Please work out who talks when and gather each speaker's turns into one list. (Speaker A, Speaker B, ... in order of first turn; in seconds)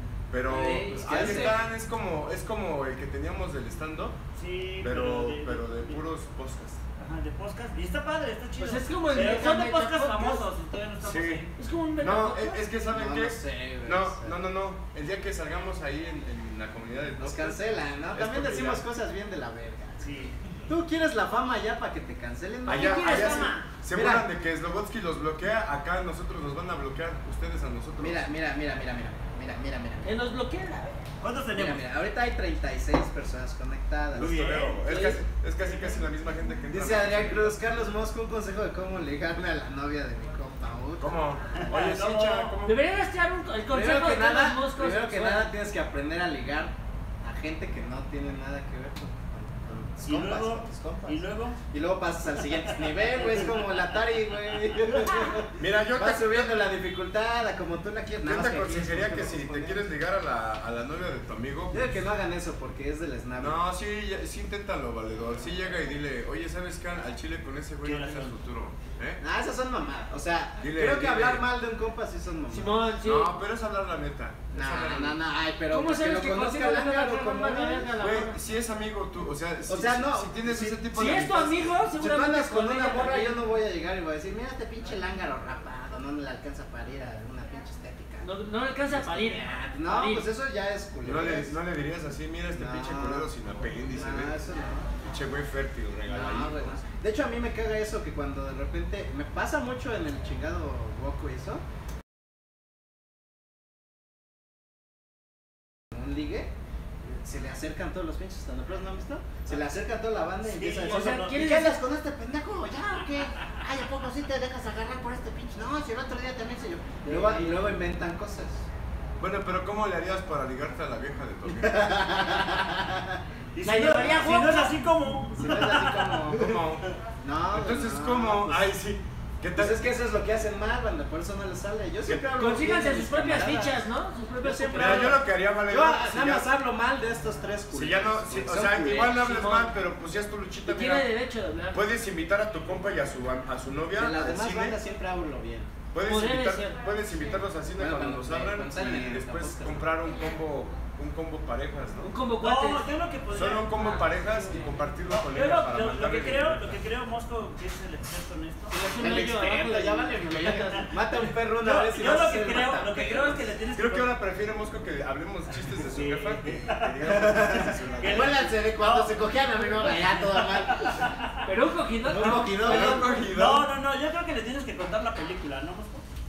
Speaker A: 0.3-4.2, 4.8-6.8, 11.0-11.4, 12.0-18.8, 22.6-28.2, 34.1-37.5, 41.0-42.8, 55.6-56.5, 58.2-62.0, 63.4-69.2, 70.6-71.4, 73.0-75.2, 78.0-81.7, 91.0-94.3, 95.0-96.8, 119.2-121.8, 126.3-126.8, 127.5-129.8, 134.7-136.5, 137.7-141.1, 141.7-144.8, 145.9-152.1, 153.3-156.7, 163.7-168.5, 172.2-173.7
Speaker B: 0.5-1.5, 8.6-10.4, 11.6-12.6, 22.7-23.6, 30.0-31.0, 34.9-35.2, 42.6-45.5, 72.5-73.3, 75.7-78.4, 80.9-83.4, 88.2-90.2, 110.9-111.7, 123.6-124.7, 132.3-135.2, 139.0-139.7, 140.7-141.8, 146.0-146.8, 152.1-152.8, 158.7-160.9, 171.4-173.2
Speaker C: 0.5-1.6, 12.9-14.4, 17.2-24.3, 28.0-30.1, 31.5-34.4, 36.7-41.2, 43.7-59.8, 61.7-63.6, 69.2-72.8, 74.5-78.0, 79.7-81.3, 81.9-88.3, 88.9-91.5, 92.5-93.3, 93.9-94.9, 96.0-101.6, 105.9-106.5, 107.0-118.6, 121.4-123.2, 125.4-126.6, 127.2-128.7, 129.5-133.8, 134.4-139.2, 143.9-145.7, 147.8-149.9, 158.8-163.5, 167.1-171.0, 172.0-173.1
Speaker D: 4.3-6.0, 7.0-11.5, 20.0-20.4, 31.2-31.8, 34.2-34.9, 35.6-36.0, 41.5-42.5, 50.0-51.6, 53.0-53.4, 67.8-68.3, 110.4-111.4, 117.0-117.6, 123.5-126.2, 152.4-154.1, 155.1-159.2, 160.4-164.1, 165.8-167.0, 168.0-169.1, 169.7-171.4, 173.2-176.1